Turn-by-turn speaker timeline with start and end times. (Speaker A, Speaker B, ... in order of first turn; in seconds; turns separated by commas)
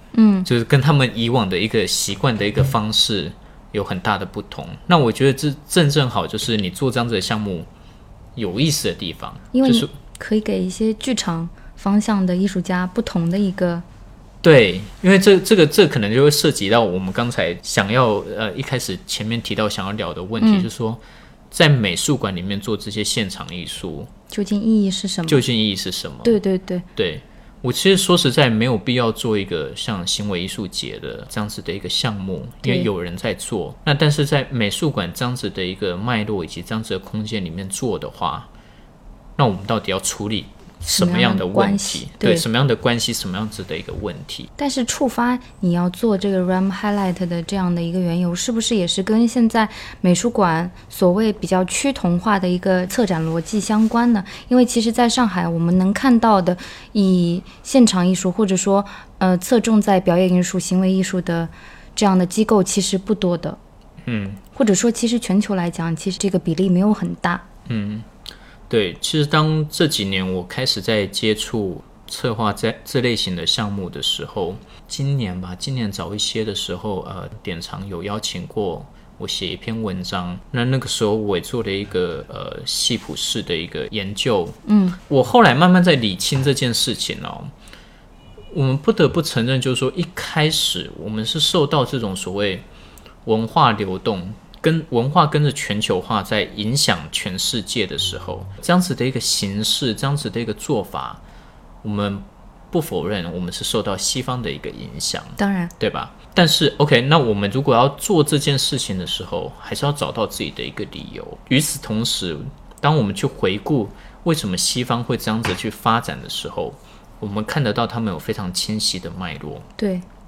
Speaker A: 0.1-0.5, Speaker B: 0.5-7.7, Speaker B: 8.3-9.9, Speaker A: 9.5-13.8, Speaker B: 14.4-24.1, Speaker A: 20.4-20.6, Speaker A: 24.3-25.4, Speaker B: 25.3-26.4, Speaker A: 26.2-26.9, Speaker B: 26.9-38.5, Speaker B: 39.4-44.5, Speaker A: 40.8-42.4, Speaker A: 44.6-63.6, Speaker B: 64.0-64.4, Speaker A: 64.5-67.4, Speaker B: 67.7-68.1, Speaker B: 68.7-87.5, Speaker A: 84.7-85.0, Speaker B: 88.5-92.7, Speaker B: 93.2-101.2, Speaker B: 101.8-119.7, Speaker A: 105.4-105.7, Speaker A: 119.8-120.0